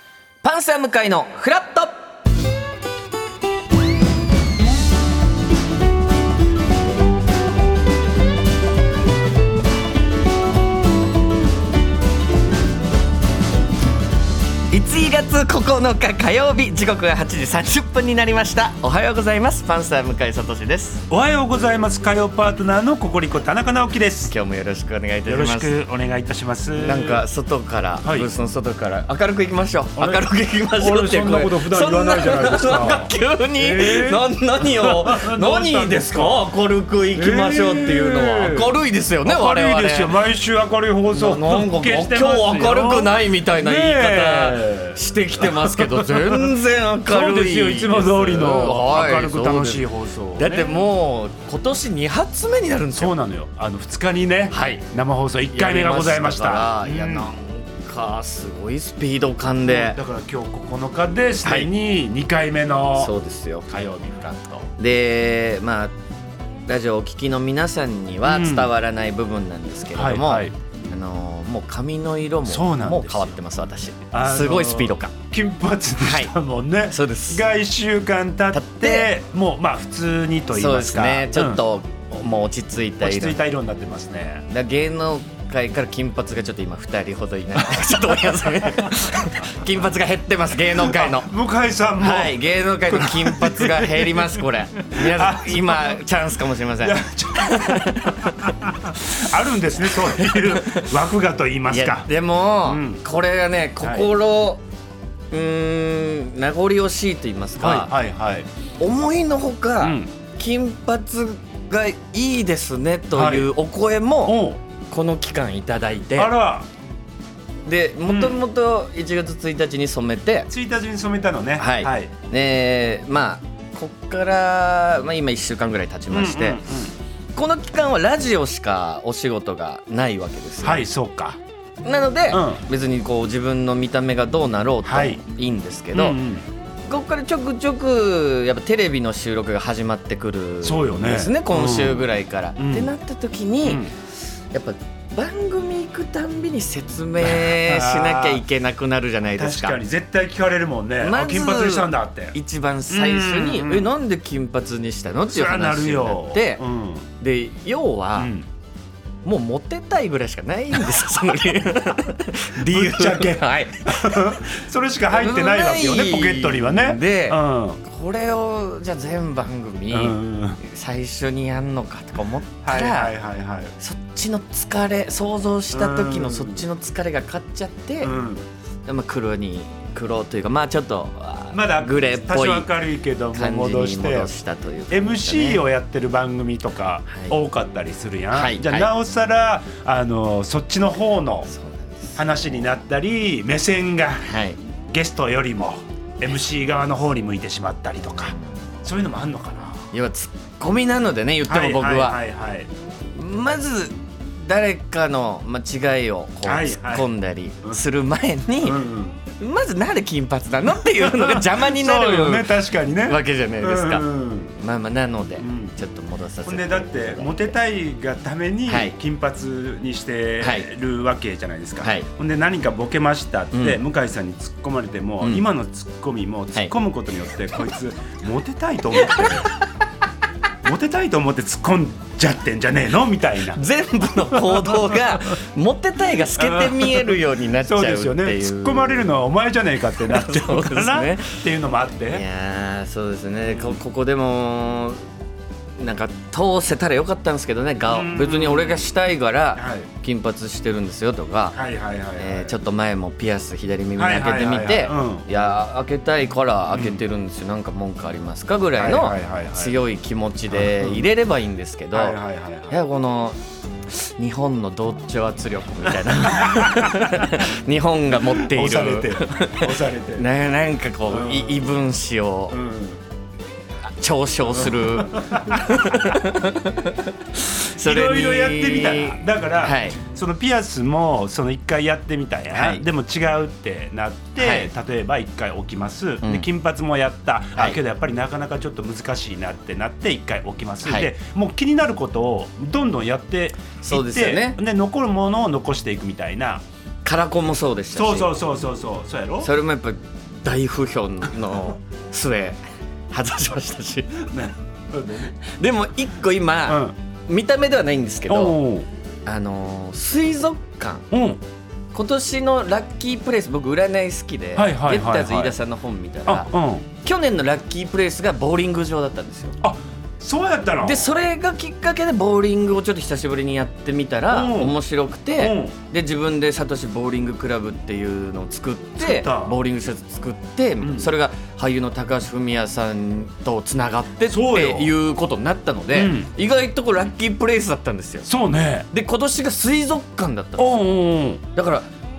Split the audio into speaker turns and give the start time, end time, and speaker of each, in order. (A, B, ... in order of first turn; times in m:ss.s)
0:00.4-0:02.0 A
0:14.7-0:21.0 A
0:21.1-0:24.3 B
0:24.3-0:25.8 A
0:25.3-0:27.2 B
0:26.8-0:40.2 A
0:28.0-0:28.3 B
0:30.0-0:30.2 B
0:30.8-0:36.4 B
0:37.2-0:46.5 B
0:41.1-0:49.9 A
0:47.1-0:50.7 B
0:50.4-0:53.2 A
0:53.0-0:57.3 B
0:54.5-0:54.8 A
0:55.5-1:00.0 A
0:59.6-1:03.1 B
1:01.4-1:01.7 A
1:03.0-1:03.8 A
1:03.7-1:04.6 B
1:04.6-1:05.9 A
1:06.7-1:15.2 A
1:08.2-1:08.7 B
1:09.9-1:10.5 B
1:12.5-1:13.4 B
1:14.1-1:21.6 B
1:16.0-1:16.3 A
1:16.9-1:17.5 A
1:18.5-1:19.1 A
1:20.5-1:23.4 A
1:23.0-1:24.4 B
1:24.5-1:31.3 A
1:30.8-1:32.4 B
1:32.0-1:38.8 A
1:32.9-1:34.4 B
1:34.9-1:36.0 B
1:36.8-1:42.1 B
1:39.8-1:41.0 A
1:41.7-1:44.6 A
1:42.6-1:43.0 B
1:43.8-1:44.1 B
1:45.3-1:47.9 A
1:47.6-1:48.5 B
1:48.8-1:56.4 A
1:49.8-1:50.1 B
1:53.1-1:53.5 B
1:54.2-1:54.6 B
1:56.2-1:56.7 B
1:57.7-2:00.5 A
1:58.1-1:58.4 B
2:00.5-2:02.1 B
2:01.6-2:06.6 A
2:06.1-2:06.9 B
2:07.4-2:10.8 A
2:10.6-2:11.4 B
2:11.8-2:16.2 A
2:12.3-2:12.6 B
2:14.8-2:15.2 B
2:15.9-2:16.4 B
2:16.9-2:23.9 A
2:20.6-2:22.9 B
2:23.6-2:23.9 B
2:24.5-2:29.8 A
2:27.2-2:28.4 B
2:29.4-2:32.4 B
2:31.0-2:36.6 A
2:32.9-2:33.9 B
2:35.3-2:37.1 B
2:37.2-2:38.3 A
2:38.2-2:38.5 B
2:39.2-2:44.4 A
2:42.6-2:47.8 B
2:45.1-2:53.2 A
2:49.9-2:50.6 B
2:52.6-2:53.7 B
2:53.8-2:58.1 A
2:55.7-2:56.7 B
2:58.0-2:58.5 B
2:58.9-3:02.7 A
3:01.5-3:04.4 B
3:03.3-3:05.6 A
3:04.9-3:11.5 B
3:08.3-3:08.9 A
3:11.5-3:12.4 A
3:12.2-3:14.3 B
3:14.2-3:14.6 A
3:14.9-3:19.8 B
3:18.2-3:18.6 A
3:19.9-3:22.2 A
3:21.5-3:22.7 B
3:23.1-3:37.6 A
3:26.4-3:27.1 B
3:28.6-3:29.2 B
3:31.0-3:34.5 B
3:35.4-3:35.8 B
3:36.4-3:49.5 B
3:38.7-3:38.9 A
3:40.4-3:40.7 A
3:41.8-3:42.1 A
3:43.5-3:43.8 A
3:49.1-3:49.6 A
3:50.6-3:53.6 B
3:53.5-3:59.1 A
3:54.3-3:55.1 B
3:56.4-4:02.2 B
3:59.9-4:01.4 A
4:02.1-4:05.0 A
4:03.5-4:03.8 B
4:05.8-4:11.6 A
4:07.9-4:08.9 B
4:09.6-4:09.9 B
4:11.5-4:12.6 B
4:12.2-4:22.2 A
4:14.0-4:15.3 B
4:16.7-4:17.0 B
4:18.8-4:19.8 B
4:20.5-4:21.1 B
4:21.9-4:22.8 B
4:22.7-4:32.6 A
4:26.5-4:27.2 B
4:28.3-4:30.3 B
4:31.1-4:31.8 B
4:32.5-4:33.0 B
4:34.0-4:40.0 A
4:34.4-4:36.1 B
4:37.8-4:56.6 B
4:42.5-4:42.8 A
4:44.4-4:44.7 A
4:46.2-4:46.5 A
4:50.8-4:51.1 A
4:53.8-4:54.6 A
4:57.0-4:58.4 A
4:57.9-4:59.5 B
4:59.4-5:02.6 A
5:03.1-5:04.2 A
5:04.3-5:05.4 B
5:05.4-5:08.6 A
5:06.7-5:07.0 B
5:08.3-5:08.9 B
5:09.2-5:11.1 A
5:11.1-5:11.4 B
5:11.9-5:16.5 A
5:14.6-5:15.6 B
5:16.3-5:16.9 B
5:17.0-5:19.6 A
5:19.6-5:21.0 B
5:20.8-5:38.3 A
5:24.3-5:24.8 B
5:25.4-5:25.7 B
5:29.0-5:29.6 B
5:30.8-5:31.1 B
5:34.3-5:34.9 B
5:35.9-5:36.3 B
5:38.3-5:38.9 B
5:38.9-5:40.9 A
5:40.6-5:41.4 B
5:41.5-5:41.9 A